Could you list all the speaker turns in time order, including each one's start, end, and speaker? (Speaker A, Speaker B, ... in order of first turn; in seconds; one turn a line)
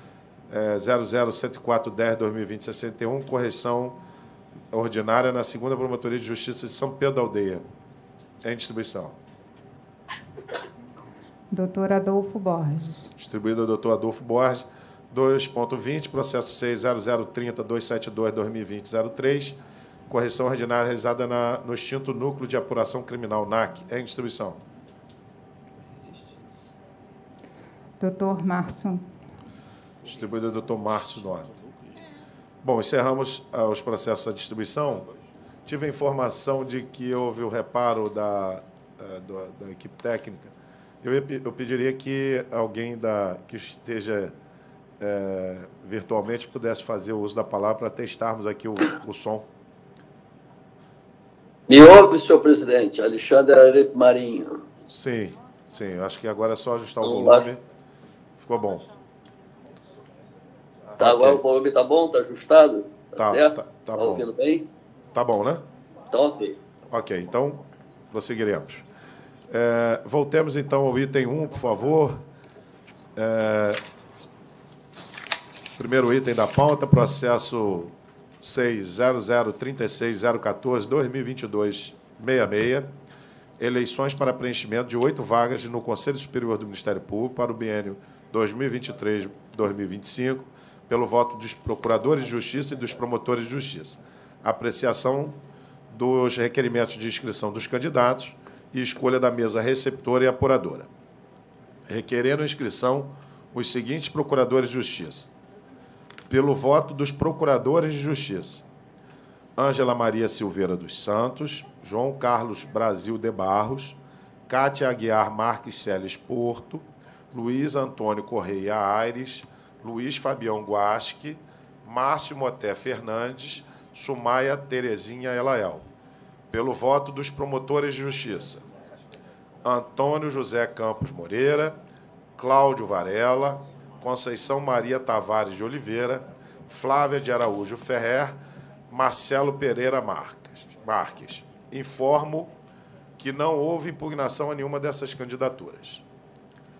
Speaker A: 0.5-4.0
Speaker A: 4.7-7.6
Speaker A: 8.4-9.2
Speaker B: 11.5-13.1
Speaker A: 13.2-19.6
Speaker A: 20.1-24.6
Speaker B: 28.0-29.2
Speaker A: 30.0-31.5
Speaker A: 32.6-35.1
Speaker A: 35.7-44.3
Speaker A: 45.0-49.5
Speaker C: 51.7-54.6
Speaker A: 54.9-57.6
Speaker C: 57.0-57.5
Speaker A: 58.4-58.9
Speaker A: 60.9-61.4
Speaker C: 61.0-64.7
Speaker A: 63.2-64.2
Speaker A: 65.1-65.6
Speaker C: 66.1-66.6
Speaker A: 66.9-68.8
Speaker A: 69.5-72.2
Speaker A: 73.2-73.8
Speaker A: 75.8-82.9
Speaker A: 83.6-95.4
Speaker A: 95.9-100.9
Speaker A: 101.9-105.3
Speaker A: 106.3-108.6
Speaker A: 109.6-114.0
Speaker A: 114.5-125.9
Speaker A: 126.5-128.6
Speaker A: 129.6-131.8
Speaker A: 132.4-138.4
Speaker A: 138.9-142.5
Speaker A: 143.2-146.0